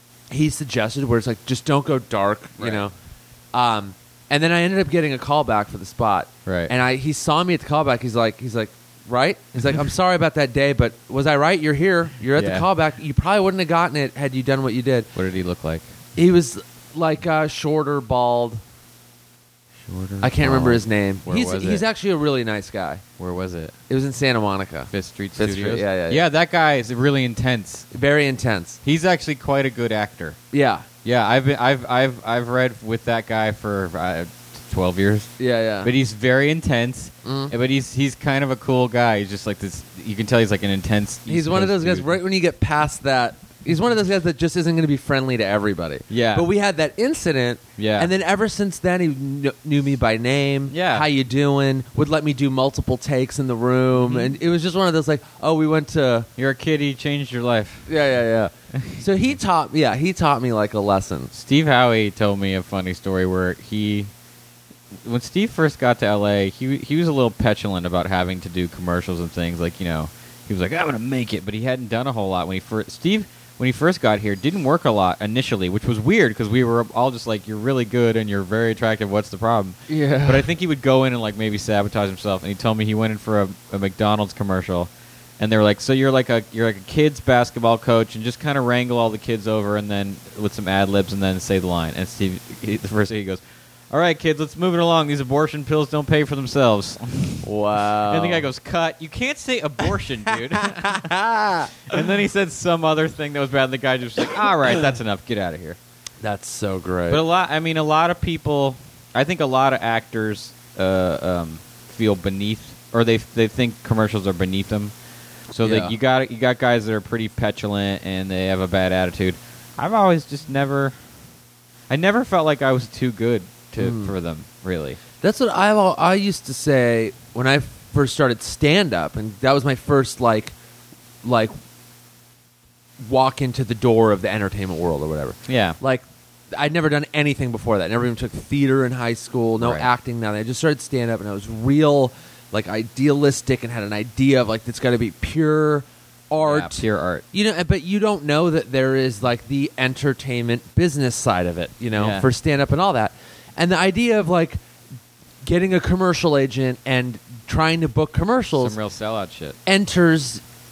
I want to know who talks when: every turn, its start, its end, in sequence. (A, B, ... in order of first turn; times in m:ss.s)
0:00.3-0:02.9 A
0:02.6-0:02.8 B
0:03.5-0:15.1 A
0:06.4-0:06.7 B
0:12.3-0:12.7 B
0:15.1-0:15.9 B
0:16.2-0:18.6 A
0:19.8-0:21.8 B
0:20.2-0:23.0 A
0:23.2-0:23.7 B
0:23.9-0:26.2 A
0:24.9-0:27.9 B
0:27.9-0:28.8 A
0:28.8-0:30.4 B
0:30.5-0:30.9 A
0:31.0-0:42.2 B
0:35.4-0:35.9 A
0:37.2-0:37.5 A
0:41.3-0:56.3 A
0:46.1-0:46.5 B
0:47.8-0:48.1 B
0:50.7-0:51.1 B
0:54.0-0:54.4 B
0:56.4-0:57.9 B
0:57.9-1:01.3 A
0:58.7-0:59.0 B
1:01.3-1:04.1 B
1:05.0-1:45.8 B
1:19.9-1:20.5 A
1:37.4-1:38.5 A
1:46.2-1:47.2 A
1:47.1-1:54.9 B
1:55.5-2:00.9 B
1:55.6-1:55.9 A
2:01.9-2:05.0 B
2:03.8-2:04.1 A
2:05.2-2:10.5 A
2:11.2-2:11.5 A
2:13.0-2:34.6 A
2:15.5-2:15.8 B
2:19.6-2:19.9 B
2:26.4-2:27.2 B
2:31.9-2:32.3 B
2:35.4-2:38.8 A
2:38.6-2:39.6 B
2:39.6-2:40.4 A